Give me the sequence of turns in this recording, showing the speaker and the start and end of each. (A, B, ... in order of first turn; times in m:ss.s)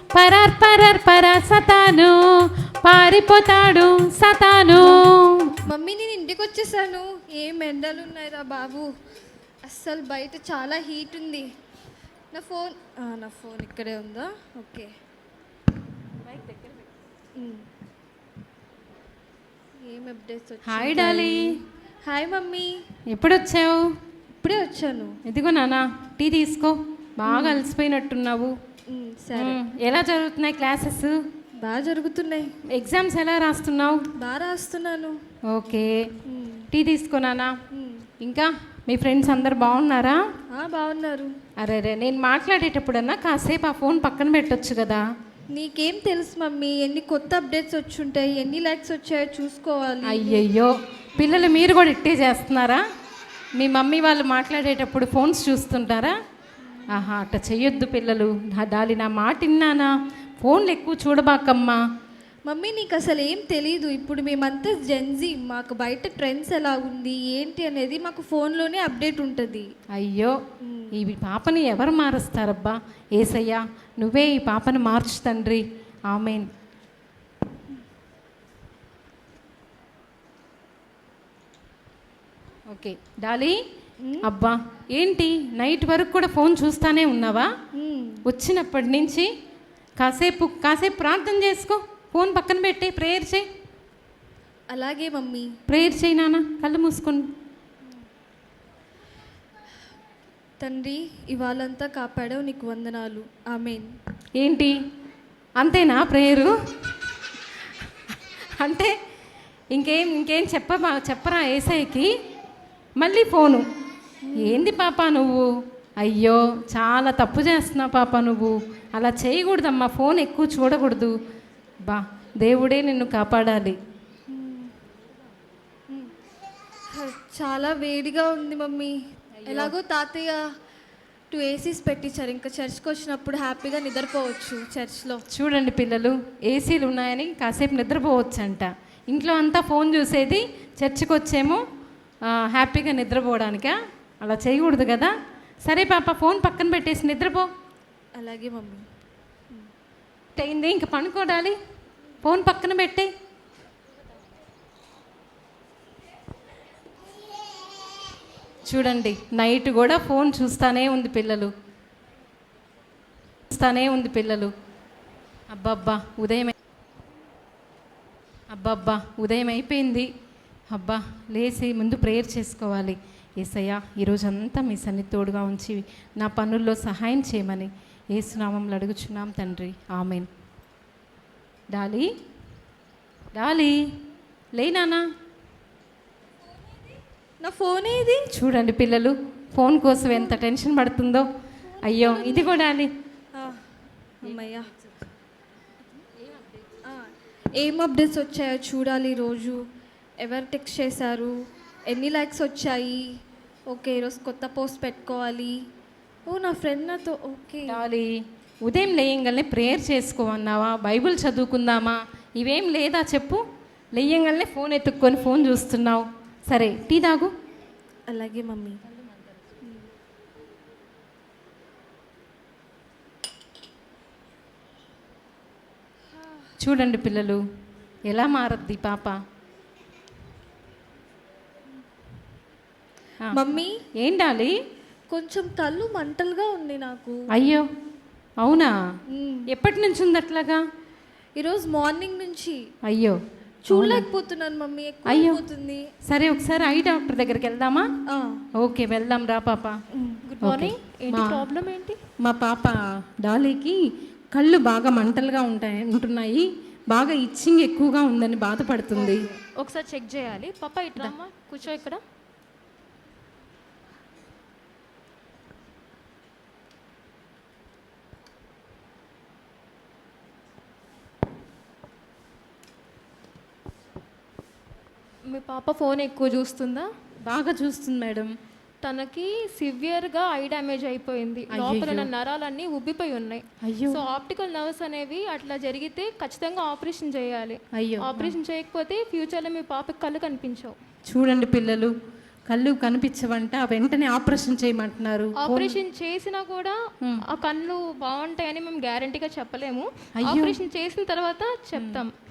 0:00.1-0:02.2 A
0:02.8-0:05.6 A
0:05.7-0:08.9 B
0:09.7-0:11.4 B
0:12.3-0:14.9 B
0:17.4-0:17.6 B
0:19.8-0:22.7 B
0:20.6-0:21.4 A
0:23.1-0:23.8 A
0:24.4-0:25.1 B
0:25.2-0:28.5 A
0:27.2-0:27.6 B
0:28.9-0:29.6 B
0:29.4-0:31.1 A
0:31.6-0:32.5 B
0:32.7-0:34.0 A
0:34.2-0:35.1 B
0:35.5-0:35.9 A
0:36.2-0:36.7 B
0:36.7-0:37.5 A
0:37.7-0:38.0 B
0:38.2-0:40.2 A
0:40.5-0:41.3 B
0:41.6-0:45.0 A
0:45.5-0:50.5 B
0:50.0-0:52.8 A
0:51.2-0:51.6 B
0:53.6-0:56.2 A
0:56.9-1:01.8 A
1:02.5-1:09.7 B
1:10.0-1:10.4 A
1:10.6-1:10.9 B
1:10.9-1:16.5 A
1:22.7-1:23.6 A
1:24.2-1:27.5 A
1:27.8-1:28.2 B
1:28.2-1:29.3 A
1:30.0-1:33.5 A
1:34.7-1:35.5 B
1:35.7-1:37.3 A
1:40.6-1:43.9 B
1:44.4-1:44.7 A
1:45.6-1:46.5 A
1:48.6-1:48.9 A
1:49.7-1:52.1 A
1:53.0-1:53.6 A
1:54.2-1:54.7 B
1:54.4-1:55.4 A
1:56.0-2:01.2 A
2:01.8-2:03.8 A
2:04.3-2:04.7 B
2:06.9-2:08.9 B
2:09.4-2:09.7 A
2:09.4-2:10.4 B
2:11.3-2:15.2 B
2:15.3-2:21.6 A
2:22.3-2:25.1 A
2:25.6-2:27.5 A
2:28.2-2:28.8 B
2:30.4-2:31.6 A
2:32.2-2:33.1 A
2:38.6-2:41.5 A
2:43.5-2:44.5 A
2:45.5-2:46.5 A
2:48.5-2:50.1 A
2:50.7-3:00.3 A
3:01.7-3:02.1 A
3:03.3-3:03.8 A
3:04.6-3:05.0 A
3:07.4-3:08.3 B
3:08.3-3:11.3 A
3:11.8-3:12.9 A
3:11.8-3:12.5 B
3:13.3-3:13.6 B
3:14.2-3:14.7 B
3:16.9-3:19.6 B
3:20.2-3:21.3 B
3:21.9-3:23.0 B
3:23.7-3:25.5 B
3:26.3-3:27.8 B
3:27.7-3:28.1 A
3:28.6-3:33.4 A
3:33.9-3:37.3 A
3:38.1-3:38.8 B
3:46.6-3:47.4 A
3:48.1-3:49.2 A
3:53.3-3:53.7 B
3:54.0-3:54.6 A
3:55.1-3:57.2 B
3:57.3-3:57.6 A
3:58.4-3:58.7 A
3:59.1-3:59.4 B
3:59.5-4:00.6 A
4:01.4-4:02.6 B
4:02.8-4:03.2 A
4:03.7-4:05.8 B
4:03.7-4:04.0 A
4:05.1-4:05.4 A
4:06.1-4:07.9 A
4:08.1-4:08.4 B
4:08.6-4:09.8 A
4:10.2-4:12.0 C
4:10.4-4:11.4 A
4:12.2-4:13.8 A
4:14.3-4:19.3 A
4:18.9-4:22.0 C
4:35.3-4:36.9 C
4:37.2-4:38.3 A
4:38.8-4:50.8 C
4:41.5-4:42.1 A
4:43.6-4:44.0 A
4:47.7-4:48.4 A
4:51.1-4:51.9 A
4:52.5-4:55.8 A
4:55.4-4:56.8 C
4:57.3-5:02.1 C
5:00.2-5:00.6 A
5:01.7-5:02.0 A